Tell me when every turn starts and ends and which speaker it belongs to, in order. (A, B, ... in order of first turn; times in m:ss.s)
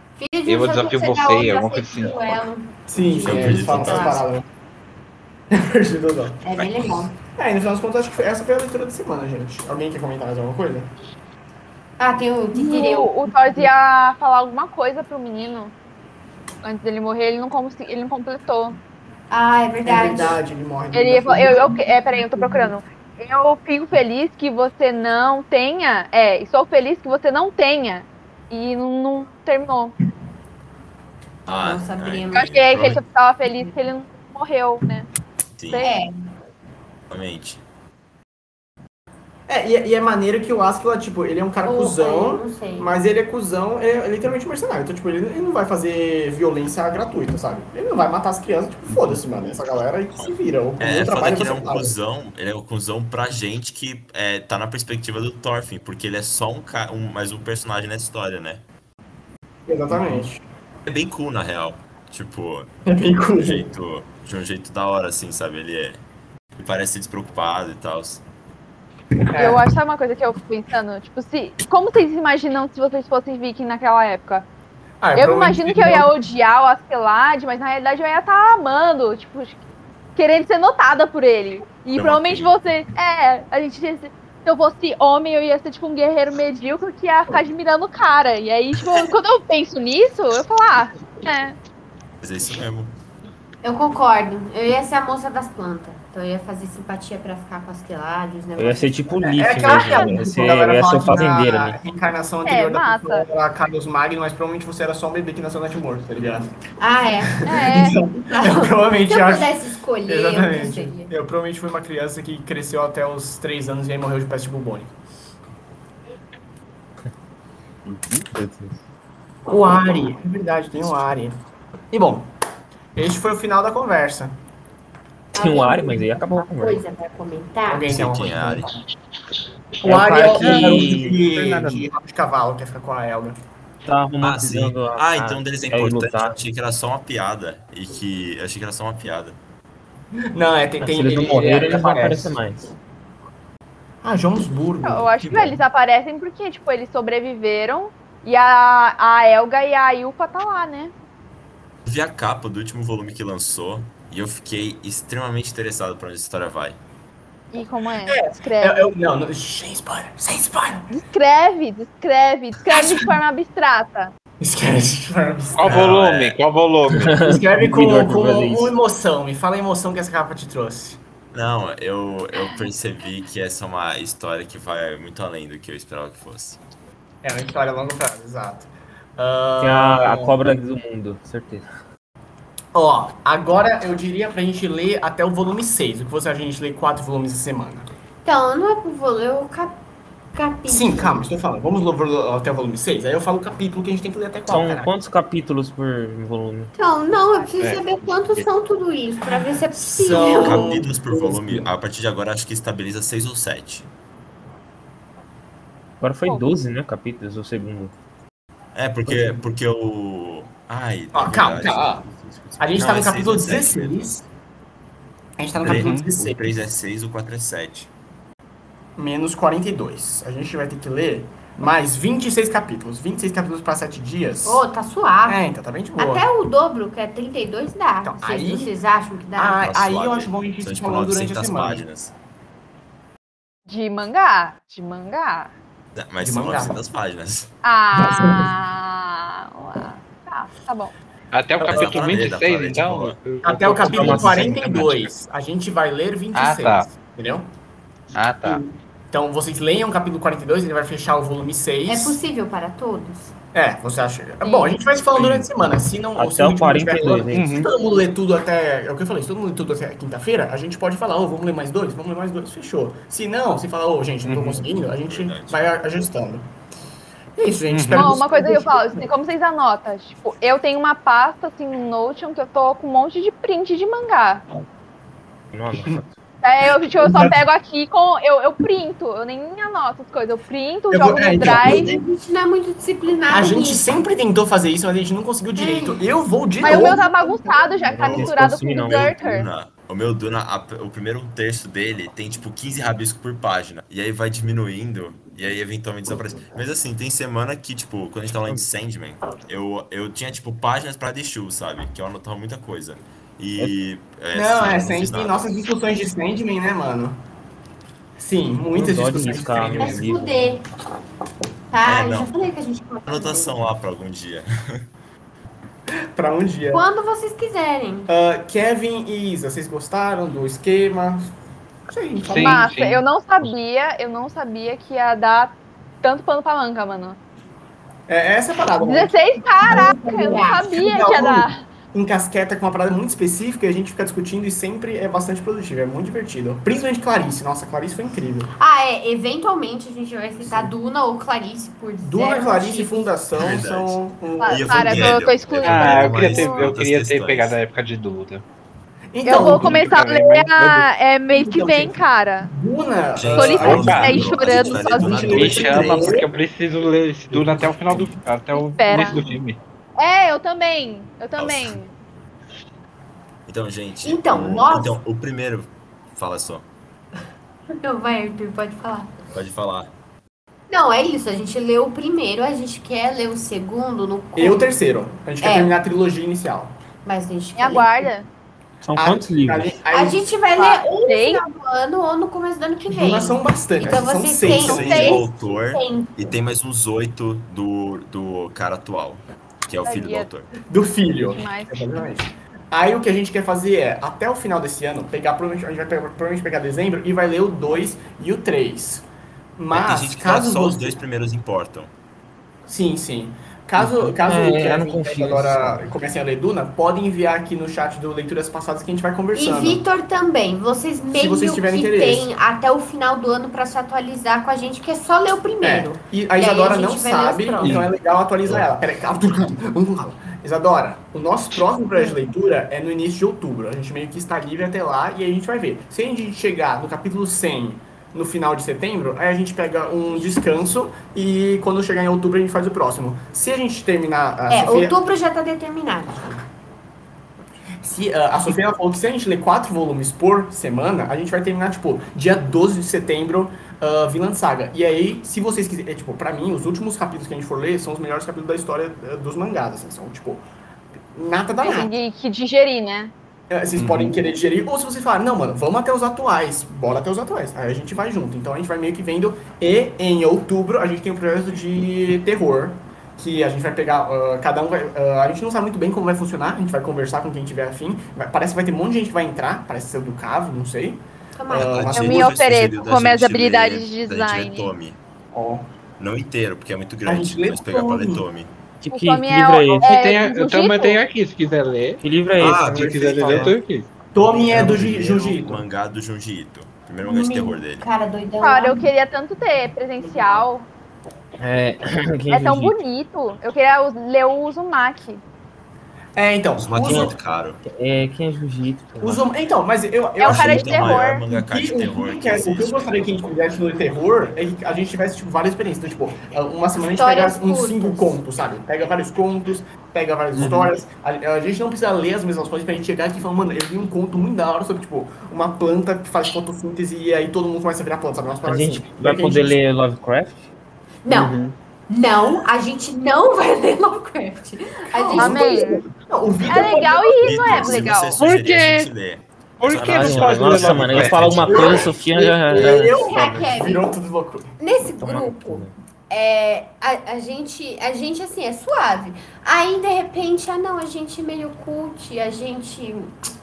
0:00.2-0:04.2 A
0:00.4-0:02.4 B
0:02.9-0:04.4 C
0:03.2-0:04.2 D
0:05.5-0:06.4 C
0:06.4-0:07.1 A
0:07.3-0:10.9 C
0:12.0-0:13.7 A
0:12.5-0:15.7 E
0:16.6-0:18.8 E
0:19.3-0:20.4 A
0:19.8-0:21.8 C
0:20.9-0:30.0 E
0:31.5-0:32.5 A
0:31.5-0:33.0 D
0:32.3-0:35.1 E
0:35.6-0:35.9 D
0:35.8-0:36.1 A
0:37.1-0:37.6 D
0:39.5-0:51.9 C
0:41.6-0:42.9 A
0:50.8-0:58.6 D
0:59.7-1:00.4 C
1:00.8-1:02.7 D
1:02.8-1:03.6 C
1:03.4-1:06.0 D
1:06.6-1:08.2 D
1:09.3-1:09.7 C
1:09.4-1:14.4 E
1:15.0-1:16.1 C
1:15.2-1:19.6 E
1:20.2-1:31.6 E
1:21.9-1:22.6 D
1:32.2-1:32.9 D
1:33.6-1:40.1 A
1:38.6-1:41.8 F
1:39.4-1:46.5 C
1:42.4-1:43.2 E
1:46.8-1:51.1 A
1:47.3-1:54.9 C
1:47.4-1:48.0 E
1:58.3-1:58.7 F
1:59.5-2:01.4 C
2:01.9-2:02.3 C
2:02.9-2:04.3 C
2:05.3-2:06.8 F
2:05.3-2:08.0 A
2:07.7-2:08.8 C
2:07.9-2:08.8 D
2:09.8-2:13.4 C
2:09.8-2:11.8 F
2:10.3-2:11.4 B
2:13.8-2:16.4 F
2:14.2-2:19.4 D
2:20.2-2:22.4 C
2:20.8-2:22.7 F
2:24.0-2:25.6 C
2:24.8-2:30.9 E
2:31.8-2:36.8 D
2:37.5-2:38.9 E
2:38.0-2:40.9 C
2:40.9-2:44.1 E
2:42.7-2:43.1 C
2:44.4-2:46.0 C
2:45.6-2:47.3 B
2:45.6-2:46.4 D
2:46.9-2:48.7 F
2:47.2-2:51.0 C
2:51.3-2:56.6 D
2:57.2-3:00.4 C
2:59.6-3:01.7 F
3:02.7-3:07.9 C
3:08.2-3:09.8 A
3:10.3-3:11.2 A
3:10.6-3:14.9 C
3:14.5-3:16.7 F
3:16.8-3:20.8 A
3:17.6-3:17.9 B
3:19.7-3:21.7 C
3:20.0-3:23.9 D
3:26.0-3:27.9 F
3:28.7-3:34.1 D
3:31.1-3:32.0 C
3:32.6-3:34.2 C
3:35.4-3:36.5 C
3:35.6-3:37.9 D
3:35.7-3:36.1 B
3:39.0-3:44.6 C
3:44.4-3:45.4 A
3:45.2-3:46.2 C
3:46.0-3:49.6 A
3:48.0-3:48.7 C
3:49.3-3:51.8 C
3:49.6-3:52.1 D
3:53.7-3:55.5 E
3:56.0-3:57.5 D
3:56.2-3:56.8 C
3:57.6-4:00.9 E
3:57.9-3:58.5 C
4:01.3-4:04.4 B
4:01.6-4:03.2 D
4:03.4-4:07.5 C
4:03.8-4:04.7 F
4:03.8-4:05.1 D
4:06.3-4:06.9 B
4:08.1-4:08.6 B
4:08.4-4:12.2 C
4:11.8-4:13.3 A
4:13.5-4:26.5 C
4:15.2-4:15.4 B
4:16.2-4:17.6 F
4:17.3-4:17.7 B
4:24.2-4:24.6 B
4:25.1-4:25.7 D
4:27.4-4:29.0 C
4:27.7-4:28.1 B
4:27.9-4:34.4 E
4:35.5-4:36.1 F
4:36.4-4:41.9 E
4:36.6-4:37.4 C
4:40.9-4:42.0 C
4:41.4-4:44.0 A
4:43.3-4:47.0 C
4:45.6-4:46.0 A
4:46.6-4:48.0 A
4:46.6-4:49.5 E
4:48.0-5:05.5 D
4:48.0-4:49.1 F
5:04.3-5:07.2 C
5:08.2-5:10.1 C
5:08.7-5:10.6 F
5:09.8-5:10.6 A
5:11.7-5:13.6 A
5:11.8-5:12.5 D
5:13.0-5:14.9 D
5:16.1-5:16.9 C
5:16.7-5:18.1 A
5:18.1-5:21.3 C
5:21.9-5:22.7 C
5:22.2-5:23.0 B
5:22.4-5:27.2 E
5:28.1-5:29.9 C
5:28.8-5:31.6 E
5:29.6-5:30.6 A
5:30.5-5:38.5 C
5:38.6-5:43.1 A
5:40.4-5:40.7 C
5:42.0-5:45.3 C
5:43.3-5:47.6 D
5:44.4-5:46.7 E
5:45.6-5:48.4 B
5:49.1-5:50.0 C
5:49.2-5:52.5 E
5:49.3-5:50.8 B
5:51.3-5:56.3 C
5:53.2-5:56.3 D
5:53.3-5:55.6 E
5:53.6-5:54.3 B
5:55.2-5:59.6 B
5:57.3-5:58.1 C
5:58.5-5:59.2 E
5:58.9-5:59.2 A
6:00.0-6:01.9 E
6:01.4-6:01.8 D
6:03.5-6:06.6 D
6:04.0-6:05.0 A
6:07.8-6:09.1 A
6:09.3-6:09.9 D
6:10.7-6:14.7 A
6:14.4-6:16.7 C
6:15.4-6:15.7 A
6:17.0-6:18.1 A
6:17.5-6:18.3 E
6:18.8-6:19.8 F
6:18.9-6:20.3 C
6:19.9-6:26.1 A
6:20.6-6:21.4 E
6:22.8-6:25.2 C
6:24.3-6:30.5 D
6:24.6-6:25.2 E
6:29.8-6:30.3 E
6:30.7-6:39.0 C
6:31.2-6:32.1 E
6:39.6-6:41.0 C
6:39.7-6:41.9 D
6:42.6-6:49.8 C
6:43.8-6:45.9 F
6:49.3-6:57.9 A
6:51.1-6:52.3 C
6:55.6-7:15.0 C
7:14.5-7:16.4 A
7:17.8-7:30.4 C
7:31.1-7:32.0 C
7:31.6-7:33.1 E
7:33.5-7:52.3 C
7:51.4-7:51.9 A
7:51.5-7:55.0 D
7:51.9-7:54.7 E
7:55.3-7:55.7 C
7:56.0-7:58.5 D
7:57.0-7:58.2 C
7:58.8-7:59.9 F
7:58.9-8:01.0 E
7:59.8-8:02.0 B
8:02.0-8:03.6 F
8:02.4-8:03.5 D
8:02.7-8:03.9 B
8:04.1-8:05.6 C
8:04.2-8:07.8 D
8:04.5-8:04.9 F
8:07.0-8:08.9 A
8:08.4-8:10.7 E
8:11.4-8:12.8 F
8:12.3-8:15.2 E
8:16.2-8:17.1 C
8:16.6-8:17.6 D
8:16.8-8:17.1 F
8:17.6-8:19.2 F
8:19.0-8:39.6 C
8:20.2-8:21.2 E
8:20.2-8:23.5 D
8:26.8-8:28.2 A
8:30.4-8:30.7 B
8:38.4-8:40.5 F
8:41.0-8:45.7 A
8:41.1-8:41.5 F
8:44.9-8:47.8 C
8:45.1-8:45.8 E
8:46.5-8:48.2 E
8:47.2-8:52.0 D
8:48.2-8:48.9 B
8:49.6-8:51.7 B
8:49.8-8:53.5 F
8:51.4-8:54.6 C
8:52.5-8:53.9 A
8:54.6-9:03.1 A
8:55.0-8:55.7 F